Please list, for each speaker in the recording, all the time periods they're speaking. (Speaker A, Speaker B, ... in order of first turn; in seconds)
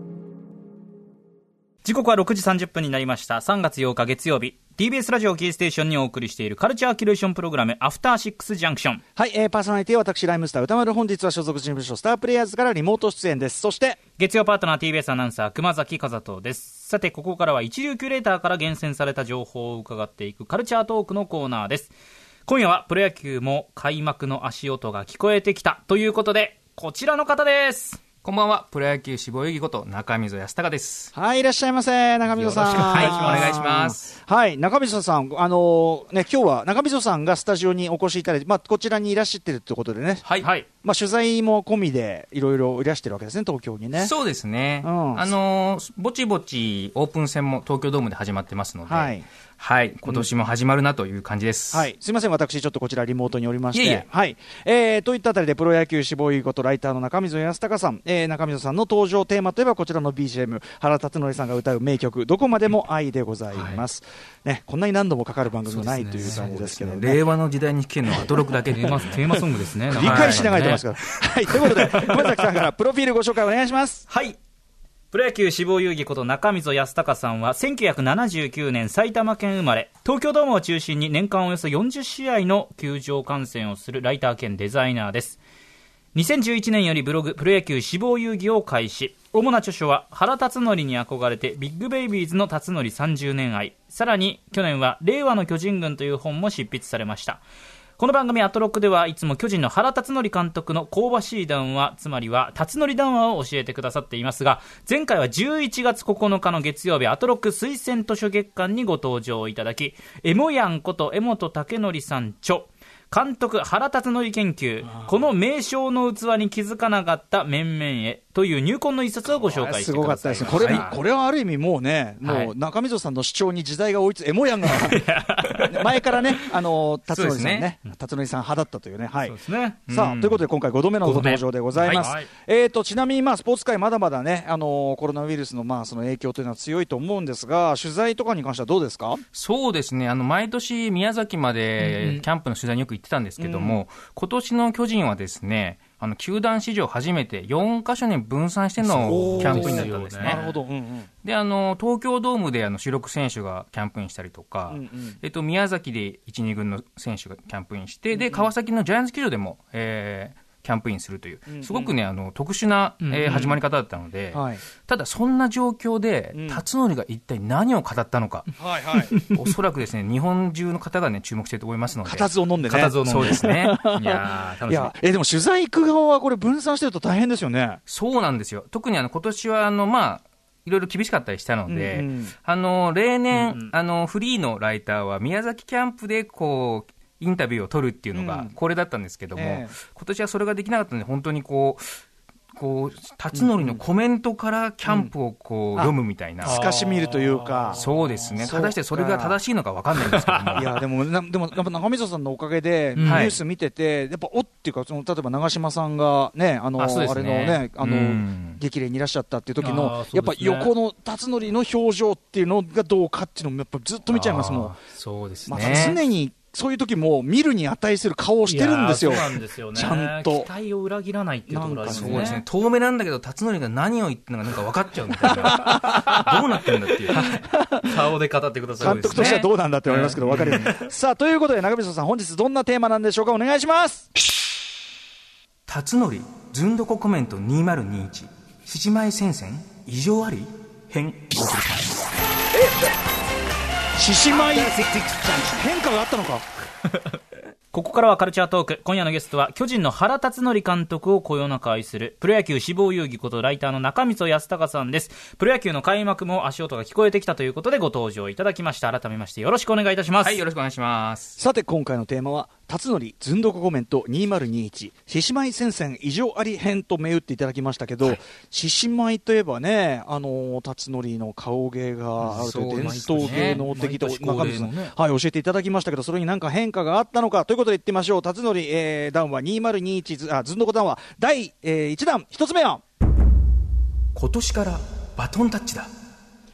Speaker A: 1.8-9.0, 14.2-21.9, 22.5-28.0, 32.3-33.6, 40.4-40.7, 63.5-63.8, 65.7-66.8, 68.7-70.8, 71.5-72.5, 74.1-74.4, 75.1-85.4, 86.1-97.4, 98.0-121.0, 122.2-122.5, 124.6-126.1, 129.2-129.8, 131.0-132.3, 141.8-142.3, 148.8-150.6, 163.0-163.6, 169.0-169.5, 172.6-174.9, 183.3-183.7, 196.4-198.4, 199.9-200.7, 203.0-203.4, 209.6-210.7, 218.5-222.4, 225.6-226.4, 227.8-230.9, 244.6-245.2, 247.7-260.4, 272.2-274.9
Speaker B: 9.2-14.0, 31.1-44.1, 44.8-45.4, 48.9-49.2, 51.7-67.2, 68.1-74.0, 119.3-139.2, 143.4-143.8, 149.1-151.1, 154.7-155.2, 158.1-158.5, 161.5-162.0, 164.3-164.6, 166.3-166.7, 168.6-169.1, 172.0-177.8, 181.7-182.3, 188.1-188.5, 189.3-189.8, 193.3-193.8, 194.8-195.1, 195.8-197.9, 198.4-199.4, 200.6-214.8, 215.5-220.5, 221.5-222.3, 225.2-226.3, 226.8-228.1, 228.8-234.1, 244.0-244.8, 245.3-246.4, 261.4-282.8
Speaker C: 28.2-31.1, 32.8-34.2, 40.2-40.5, 43.9-51.9, 53.7-54.1, 66.6-69.4, 69.9-70.6, 120.5-120.9, 127.1-127.7, 129.9-130.5, 139.3-150.4, 151.2-168.5, 169.3-172.3, 173.0-173.9, 177.9-191.8, 192.5-196.6, 197.8-200.8, 203.1-203.4, 206.8-208.6, 214.1-216.0, 221.9-227.5, 228.8-229.5, 230.4-230.7, 235.7-241.9, 260.2-261.4, 272.4-273.6, 284.1-285.9